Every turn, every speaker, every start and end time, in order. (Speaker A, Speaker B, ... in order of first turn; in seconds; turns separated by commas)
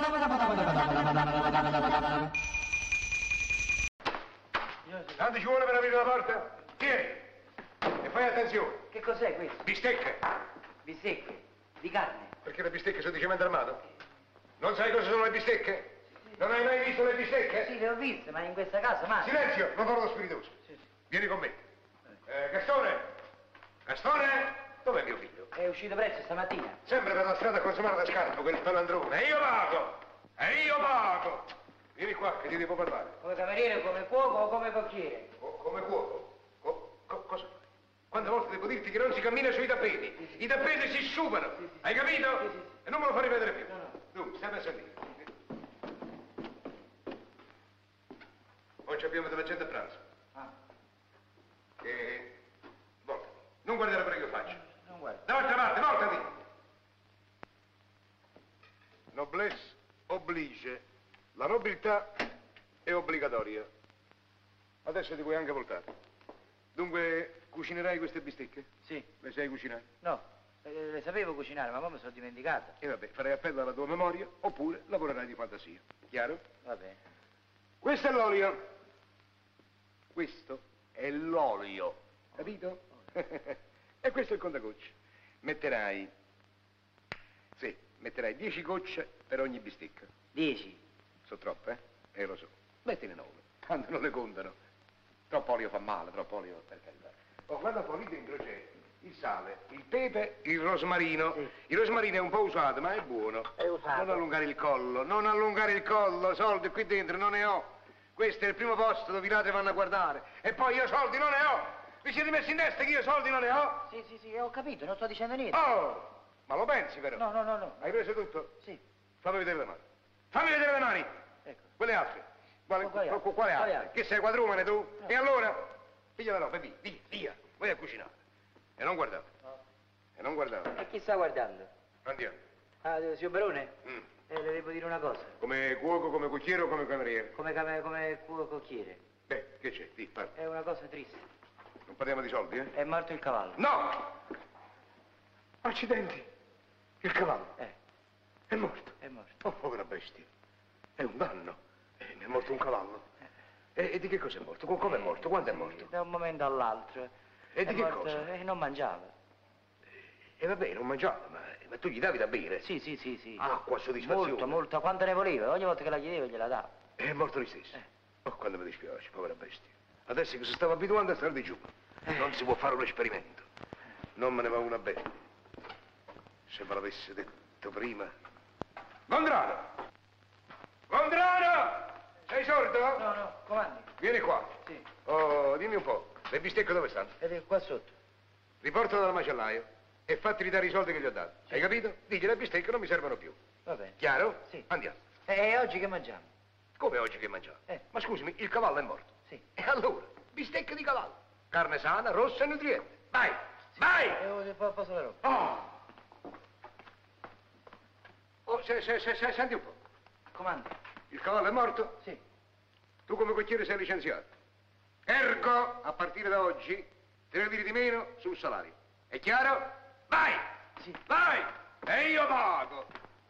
Speaker A: 0.3-1.1, Speaker B: 5.1-7.2, Speaker B: 8.0-8.8, Speaker A: 8.9-9.7, Speaker B: 9.6-10.3, Speaker A: 10.8-12.3, Speaker B: 12.4-13.8, Speaker B: 14.6-17.7, Speaker A: 17.5-19.4, Speaker B: 19.2-20.5, Speaker B: 21.1-21.6, Speaker B: 22.3-23.1, Speaker B: 23.9-25.5, Speaker A: 25.5-26.8, Speaker B: 26.9-33.1, Speaker A: 33.2-35.3, Speaker B: 35.4-45.2, Speaker A: 43.7-44.0, Speaker B: 48.9-50.0, Speaker B: 51.8-52.3, Speaker B: 53.0-54.6, Speaker A: 54.6-55.2, Speaker B: 55.3-56.3, Speaker B: 59.1-60.8, Speaker B: 61.4-62.2, Speaker B: 62.9-63.7, Speaker B: 64.8-65.9, Speaker B: 66.8-68.7, Speaker B: 69.2-69.9, Speaker A: 70.0-72.8, Speaker B: 72.8-76.4, Speaker A: 76.7-77.0, Speaker B: 77.8-78.6, Speaker B: 80.1-86.1, Speaker B: 87.6-90.1, Speaker A: 90.3-90.8, Speaker B: 91.3-94.6, Speaker B: 95.3-113.9, Speaker A: 103.6-104.2, Speaker A: 113.9-115.6, Speaker B: 115.5-117.2, Speaker A: 117.2-117.9, Speaker B: 117.8-118.5, Speaker B: 119.2-121.1, Speaker B: 121.8-125.6, Speaker A: 122.8-123.9, Speaker B: 126.2-128.1, Speaker B: 128.8-129.3, Speaker B: 130.2-130.8, Speaker A: 130.7-131.7, Speaker B: 132.1-132.4, Speaker A: 132.8-133.7, Speaker A: 134.3-135.4, Speaker B: 135.4-137.3, Speaker A: 137.3-139.0, Speaker B: 139.3-140.3, Speaker A: 140.4-141.2, Speaker B: 141.9-142.7, Speaker A: 142.7-143.6, Speaker B: 143.6-144.2, Speaker B: 145.6-146.3, Speaker B: 147.0-147.5, Speaker B: 148.5-150.3, Speaker A: 149.0-149.4, Speaker B: 151.0-153.0, Speaker B: 153.8-155.9, Speaker A: 154.8-157.1, Speaker B: 157.6-158.3, Speaker A: 157.6-159.1, Speaker B: 160.4-162.7, Speaker A: 162.6-163.5, Speaker B: 163.4-164.6, Speaker A: 164.0-166.7, Speaker B: 167.0-173.5, Speaker B: 174.2-175.1, Speaker B: 176.5-178.1, Speaker B: 179.1-179.7, Speaker B: 180.9-183.0, Speaker A: 182.9-183.9, Speaker B: 184.0-184.5, Speaker B: 185.1-187.1, Speaker A: 187.2-187.9, Speaker B: 188.6-193.4, Speaker A: 193.7-194.7, Speaker B: 194.0-195.0, Speaker A: 195.3-196.3, Speaker B: 196.8-204.2, Speaker A: 204.0-205.4, Speaker B: 205.2-205.7, Speaker B: 208.5-209.8, Speaker A: 210.3-210.7, Speaker B: 211.1-212.0, Speaker B: 213.1-214.3, Speaker B: 215.1-222.9